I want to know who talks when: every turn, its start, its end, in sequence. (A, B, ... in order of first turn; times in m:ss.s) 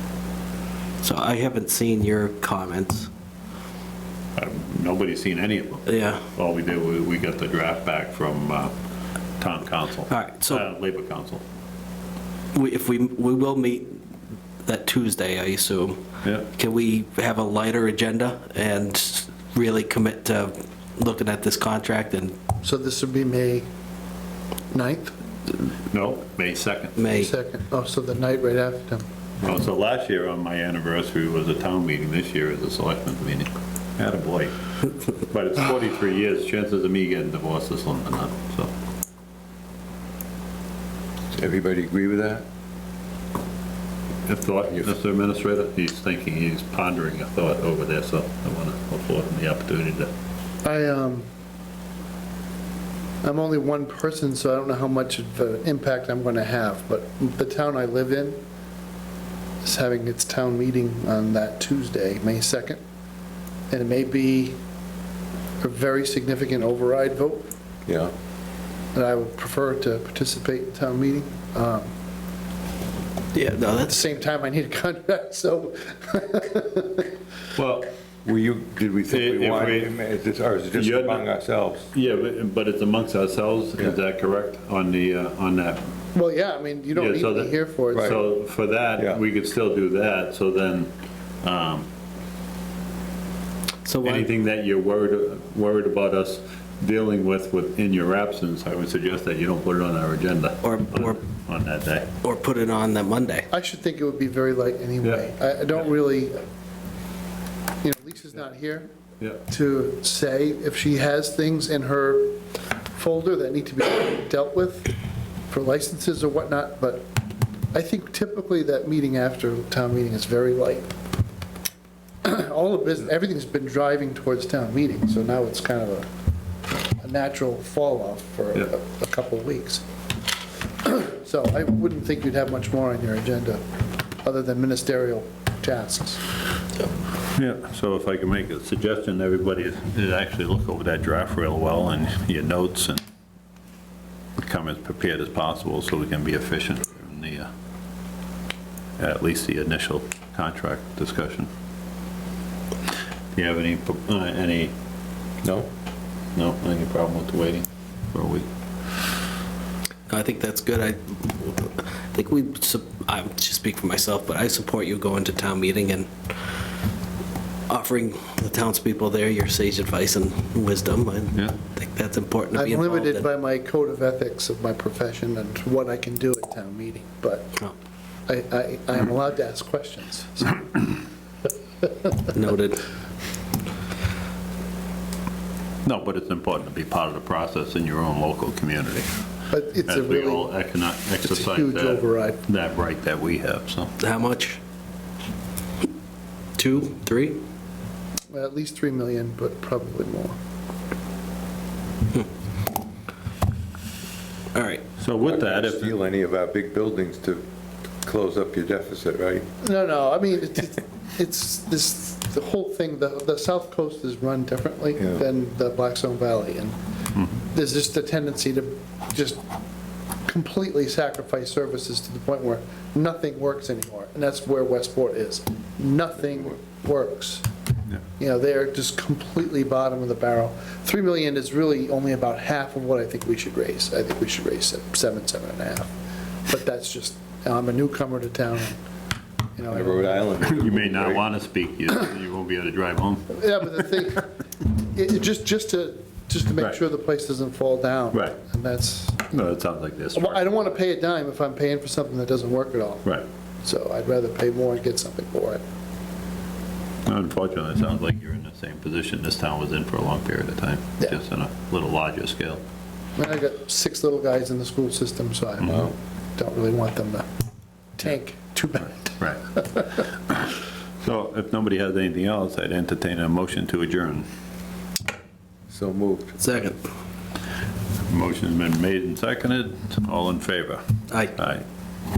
0:01.0-0:03.1 A
0:04.4-0:08.7 B
0:05.8-0:06.2 A
0:09.4-0:11.4 B
0:10.1-0:10.6 A
0:12.5-0:14.0 A
0:14.6-0:22.4 A
0:16.2-0:16.5 B
0:22.6-0:23.7 C
0:24.7-0:25.1 C
0:25.9-0:27.0 B
0:27.0-0:27.3 A
0:27.1-0:29.1 C
0:29.4-0:34.5 B
0:35.3-0:38.7 B
0:41.3-0:42.4 D
0:44.2-0:50.1 B
0:50.6-0:51.2 C
0:53.2-0:58.4 C
0:59.6-1:02.8 C
1:03.7-1:04.6 C
1:05.6-1:07.5 C
1:07.8-1:08.1 D
1:08.9-1:11.9 C
1:13.3-1:14.0 A
1:13.9-1:17.1 C
1:17.6-1:17.9 B
1:18.2-1:21.9 D
1:19.1-1:19.9 B
1:20.7-1:21.2 B
1:21.8-1:25.8 B
1:26.1-1:28.2 C
1:26.9-1:30.9 B
1:27.9-1:28.2 D
1:31.4-1:31.9 B
1:33.8-1:34.3 A
1:34.0-1:42.1 B
1:40.6-1:41.2 A
1:42.2-1:43.5 A
1:43.5-1:46.4 C
1:45.0-1:45.3 B
1:47.8-1:48.9 C
1:49.5-1:52.4 C
1:52.9-1:54.9 C
1:55.5-1:57.1 C
1:57.7-2:00.9 C
2:02.2-2:06.1 C
2:07.0-2:09.8 C
2:10.8-2:13.6 C
2:14.2-2:16.2 C
2:17.3-2:23.0 B
2:24.4-2:27.5 B
2:29.0-2:31.5 B
2:33.3-2:34.7 B
2:35.4-2:35.7 D
2:36.3-2:38.4 B
2:40.1-2:46.1 A
2:47.7-2:53.2 A
2:52.5-2:57.6 C
2:58.3-3:01.0 C
3:01.8-3:02.2 C
3:02.3-3:02.8 A
3:05.8-3:09.1 B
3:09.5-3:10.5 C
3:09.9-3:13.9 B
3:11.2-3:12.4 C
3:14.0-3:14.6 A
3:16.6-3:17.4 A
3:18.3-3:20.4 C
3:24.5-3:24.8 A
3:25.0-3:25.9 B
3:25.2-3:27.4 D
3:28.0-3:29.5 D
3:29.6-3:36.8 C
3:37.4-3:39.4 C
3:40.2-3:47.4 C
3:48.2-3:55.9 C
3:56.5-3:58.8 C
3:59.6-4:00.2 C
3:59.7-4:01.2 D
4:00.4-4:03.4 B
4:03.3-4:09.4 C
4:08.1-4:08.4 B
4:09.3-4:10.5 B
4:10.1-4:13.1 C
4:13.6-4:15.6 C
4:17.0-4:22.6 B
4:23.2-4:27.3 C
4:28.0-4:29.8 C
4:29.2-4:34.3 B
4:35.7-4:36.4 D
4:36.4-4:36.8 A
4:38.1-4:40.8 B
4:41.3-4:41.6 B